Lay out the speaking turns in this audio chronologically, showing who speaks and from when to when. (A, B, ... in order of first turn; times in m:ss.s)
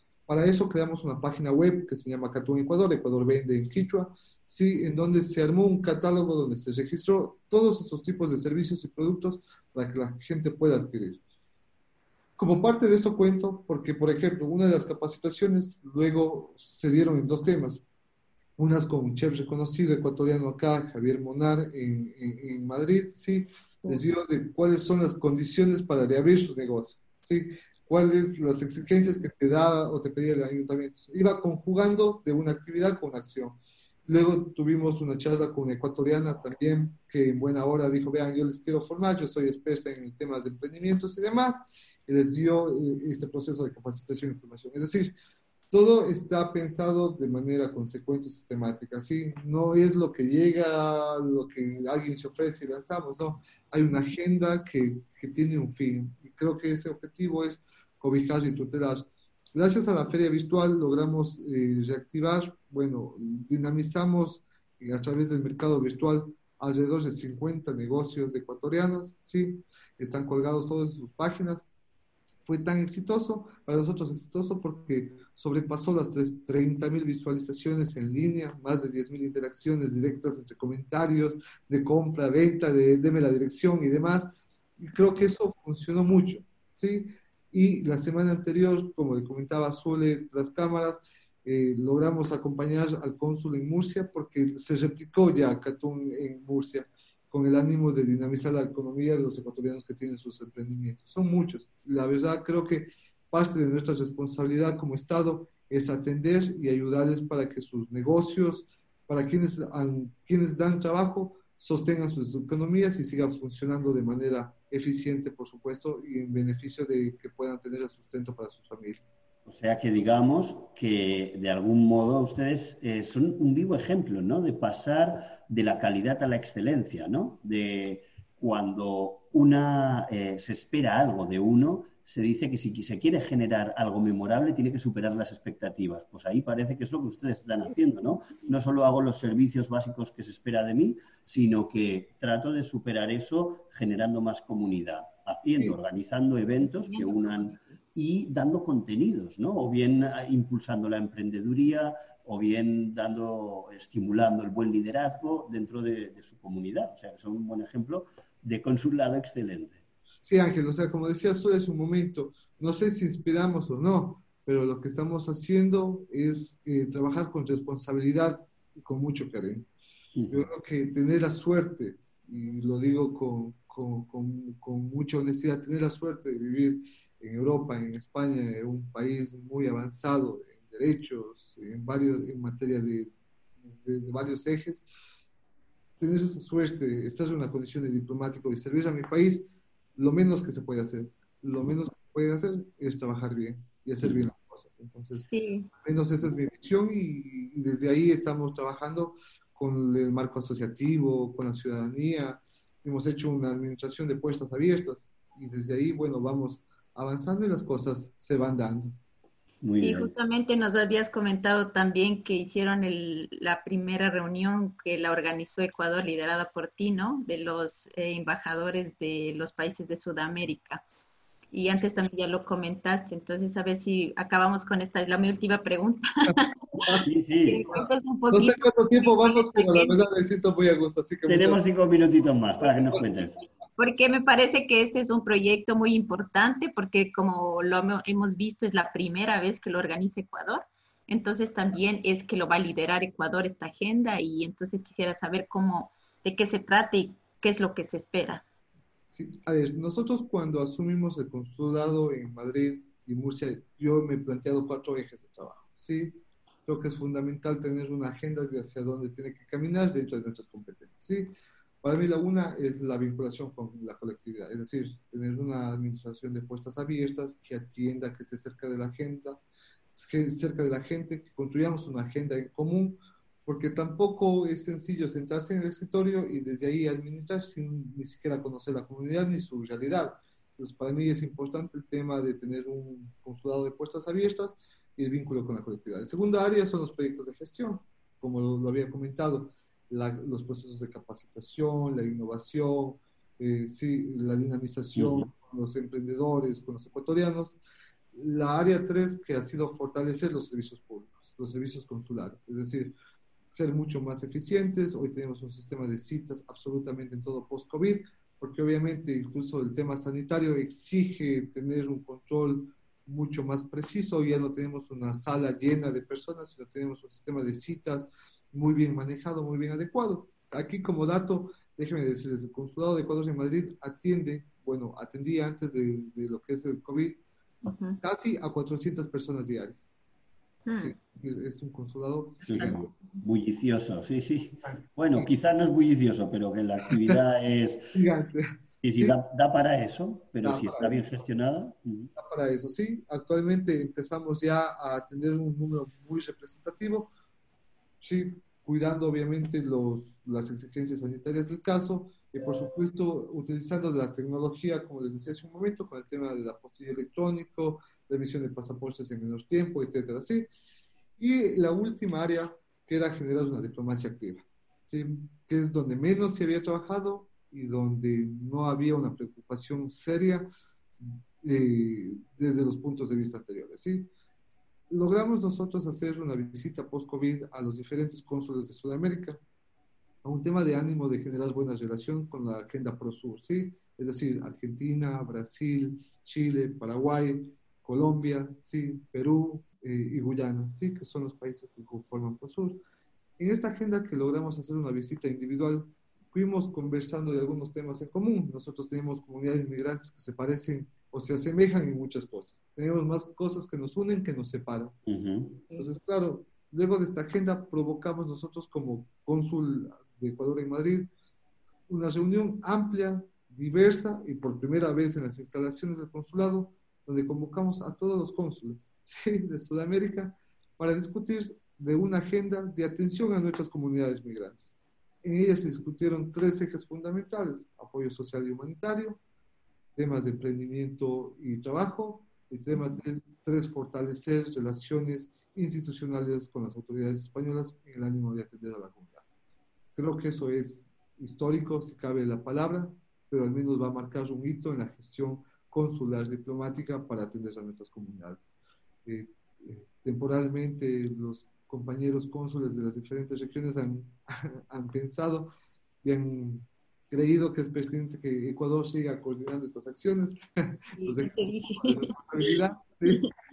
0:00.3-0:11.2 A
0:12.4-0:17.8 A
0:18.6-0:45.1 A
0:45.7-1:11.6 A
1:12.4-1:59.0 A
1:59.4-2:39.8 B
2:26.7-2:27.6 C
2:40.2-2:49.7 A
2:50.2-2:50.5 B
2:50.3-3:03.1 A
3:03.7-3:04.8 A
3:06.0-3:15.3 A
3:15.3-3:15.7 C
3:15.8-3:28.9 A
3:29.6-3:30.1 B
3:29.8-3:40.8 C
3:41.5-3:50.0 C
3:47.0-3:47.6 B
3:47.7-3:51.6 A
3:51.3-3:53.4 B
3:53.8-4:08.4 C
4:09.1-4:29.4 A
4:30.0-4:57.6 A
4:55.0-4:55.3 B
4:58.1-5:02.9 A
5:03.5-5:27.2 A
5:27.6-5:28.0 C
5:28.0-5:29.8 A
5:30.6-5:30.9 C
5:30.8-5:32.8 A
5:32.5-5:37.9 B
5:34.6-5:35.3 A
5:37.9-5:39.2 A
5:38.8-5:42.1 B
5:40.4-5:41.1 A
5:42.2-5:47.1 A
5:48.0-6:00.5 A
6:01.2-6:10.5 A
6:11.0-6:14.1 A
6:14.9-6:19.4 A
6:20.2-6:32.8 A
6:33.4-6:45.0 A
6:45.1-6:45.6 B
6:45.7-6:51.1 A
6:51.9-7:09.2 A
7:10.0-7:19.2 A
7:20.0-7:28.5 A
7:29.0-7:35.5 A
7:36.0-7:43.2 A
7:41.0-7:43.3 C